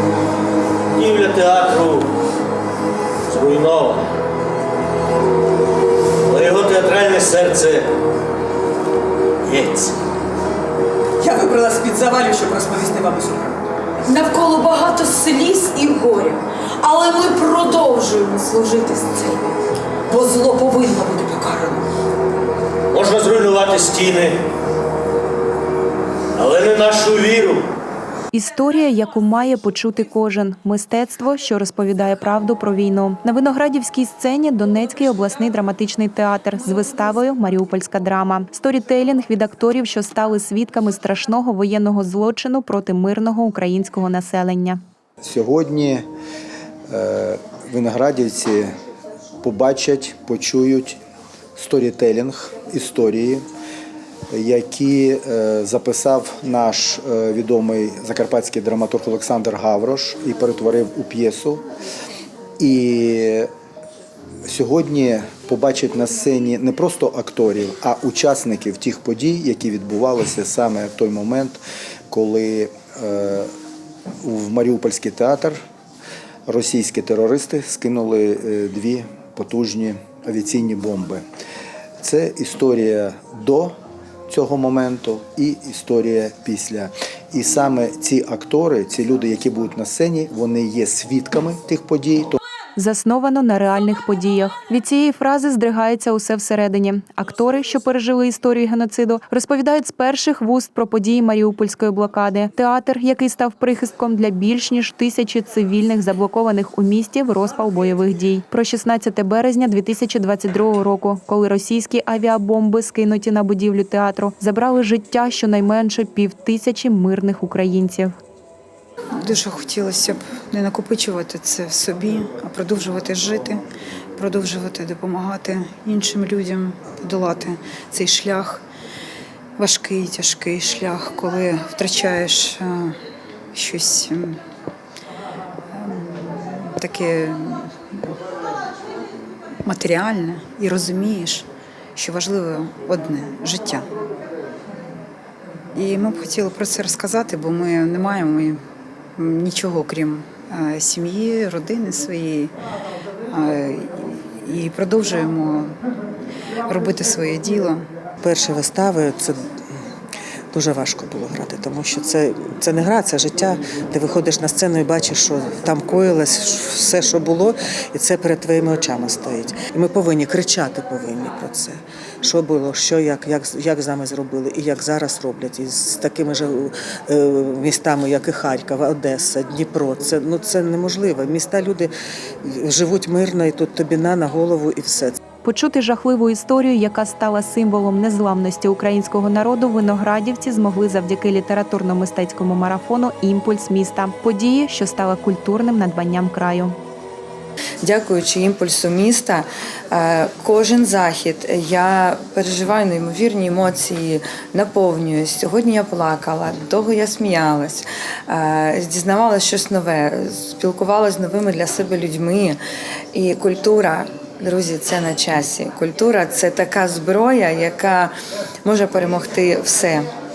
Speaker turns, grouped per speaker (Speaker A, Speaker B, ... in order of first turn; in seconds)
Speaker A: 1.0-1.9, 3.3-3.9, 6.3-7.8, 9.5-9.9, 22.9-24.3, 26.4-27.6
Speaker B: 11.2-13.6, 21.2-21.8
Speaker C: 14.1-19.5, 20.1-21.7
Speaker D: 28.3-44.8, 92.8-118.1, 185.4-196.7
Speaker E: 45.2-46.0, 46.9-48.7, 49.4-51.0, 51.6-53.4, 54.3-61.6, 62.6-63.5, 64.4-71.6, 72.1-73.5, 74.2-75.6, 76.5-81.2, 82.0-83.7, 84.3-92.4
Speaker F: 119.2-123.6, 124.2-128.6, 129.6-133.0, 133.5-134.4, 135.7-137.7, 139.6-143.9, 145.7-148.6, 149.2-152.5, 153.3-155.8, 156.7-157.8
Speaker G: 158.2-159.7, 160.5-181.9, 182.4-185.2
Speaker H: 197.8-212.6, 213.1-218.1, 218.6-220.1